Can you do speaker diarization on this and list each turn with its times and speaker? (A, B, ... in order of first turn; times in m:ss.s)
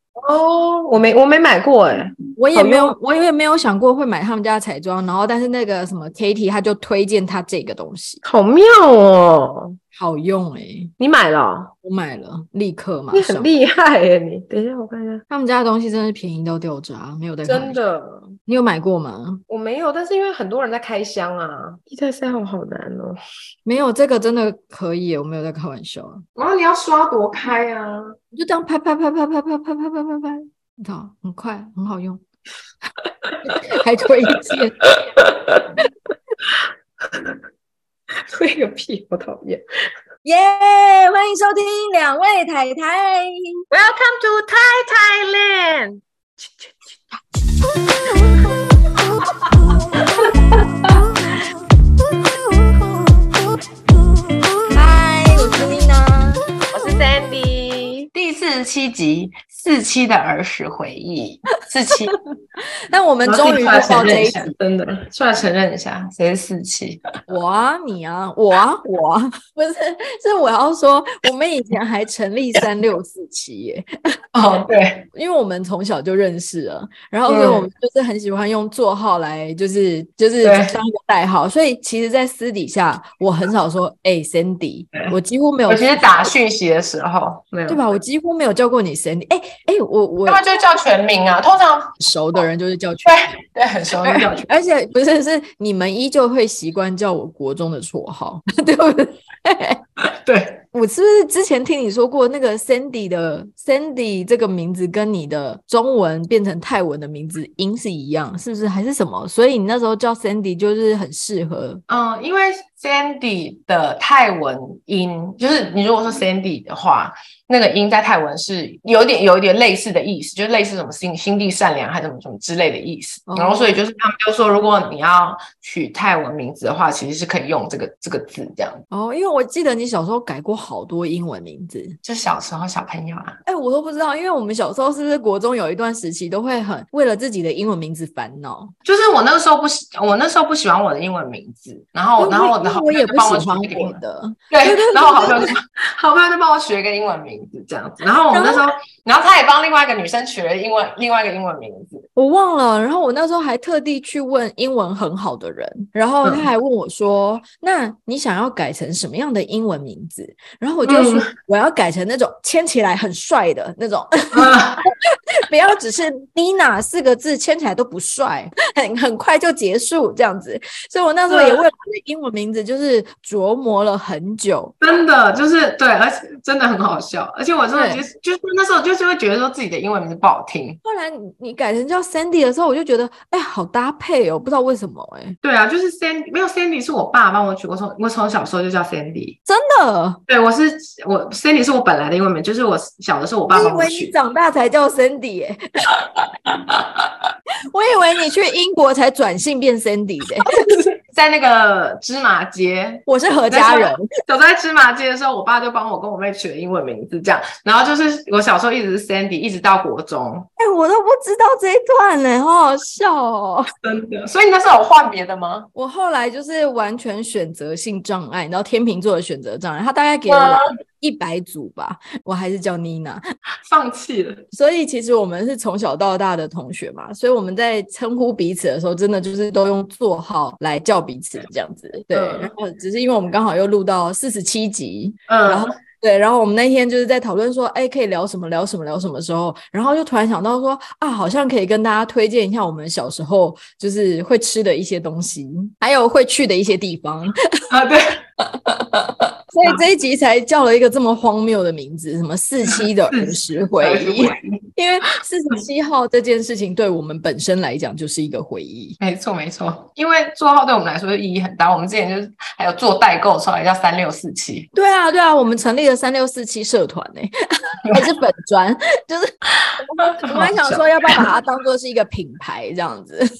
0:00.1-0:03.0 A
0:02.4-0:08.2 B
0:08.2-0:09.8 A
0:09.9-0:10.9 B
0:11.0-0:11.7 A
0:11.8-0:13.5 B
0:13.1-0:15.2 A
0:15.3-0:17.8 B
0:17.4-0:18.3 A
0:18.4-0:19.4 B
0:19.5-0:23.2 A
0:23.6-0:26.2 B
0:26.4-0:28.2 A
0:28.3-0:32.2 B
0:33.2-0:33.6 A
0:33.4-0:34.8 B
0:34.3-0:35.7 A
0:36.4-0:37.4 A
0:38.3-0:39.6 A
0:40.2-0:43.6 B
0:43.7-0:46.9 A
0:49.9-0:50.9 A
0:54.7-0:56.4 B
0:56.7-1:02.2 A
1:02.9-1:04.5 B
1:03.2-1:07.0 A
1:07.3-1:14.0 B
1:14.3-1:15.0 A
1:15.1-1:26.0 B
1:17.3-1:17.7 A
1:20.4-1:20.8 A
1:25.7-1:27.8 A
1:27.7-1:30.4 B
1:30.2-1:32.0 A
1:32.0-1:33.3 B
1:33.0-1:34.5 A
1:34.0-1:39.8 B
1:40.0-1:40.6 A
1:40.7-1:51.8 B
1:51.9-2:08.8 A
2:03.3-2:03.7 B
2:08.9-2:12.0 B
2:12.0-2:13.4 A
2:13.4-2:18.7 B
2:18.8-2:24.0 A
2:22.2-2:25.5 B
2:24.5-2:32.0 A
2:28.3-2:28.6 B
2:32.2-2:54.7 B
2:40.8-2:41.3 A
2:44.3-2:44.8 A
2:51.3-2:51.6 A
2:54.8-3:00.8 A
2:57.7-2:58.0 B
3:00.8-3:05.4 B
3:05.4-3:09.4 A
3:09.4-3:10.2 B
3:10.3-3:14.1 A
3:13.5-3:15.9 B
3:16.5-3:16.9 A
3:17.7-3:20.6 B
3:20.6-3:30.5 A
3:23.0-3:24.1 B
3:30.6-3:33.7 B
3:33.8-3:35.7 A
3:35.7-3:43.2 B
3:40.3-3:40.6 A
3:43.6-3:44.4 A
3:44.5-4:07.4 B
3:52.1-3:52.5 A
3:55.3-3:55.7 A
4:07.7-4:08.2 A
4:08.6-4:08.9 B
4:09.5-4:19.0 B
4:12.6-4:14.6 A
4:19.0-4:24.7 A
4:24.7-4:33.3 B
4:29.6-4:31.2 A